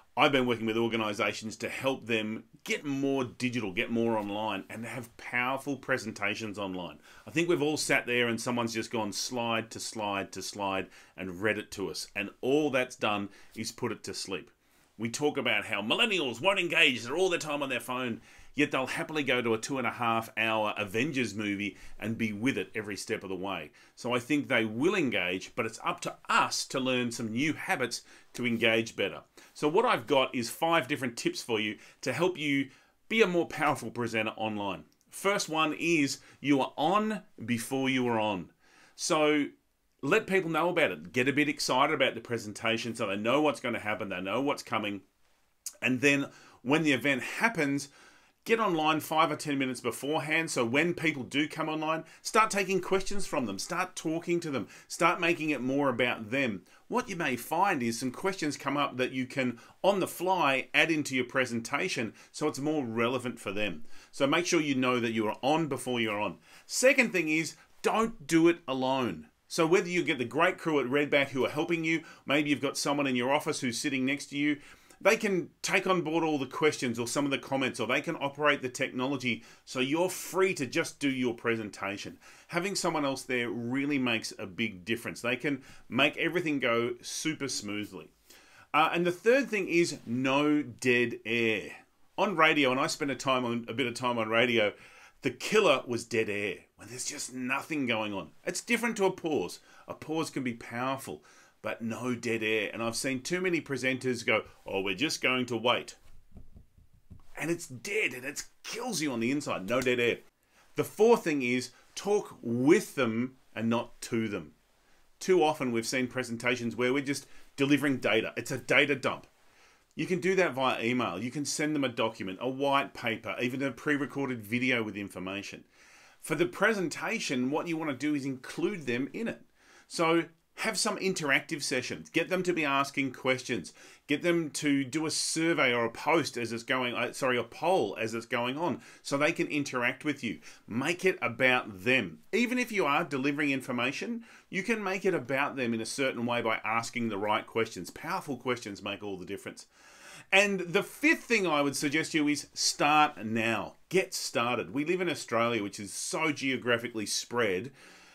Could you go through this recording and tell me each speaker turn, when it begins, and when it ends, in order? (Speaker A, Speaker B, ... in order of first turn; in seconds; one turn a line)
Speaker A: 0.2-39.5
Speaker A: 40.0-45.0
Speaker A: 45.8-47.9
Speaker A: 48.5-88.1
Speaker A: 88.7-106.0
Speaker A: 107.4-110.2
Speaker A: 110.8-114.5
Speaker A: 115.2-119.3
Speaker A: 120.0-125.7
Speaker A: 126.2-149.7
Speaker A: 150.3-157.7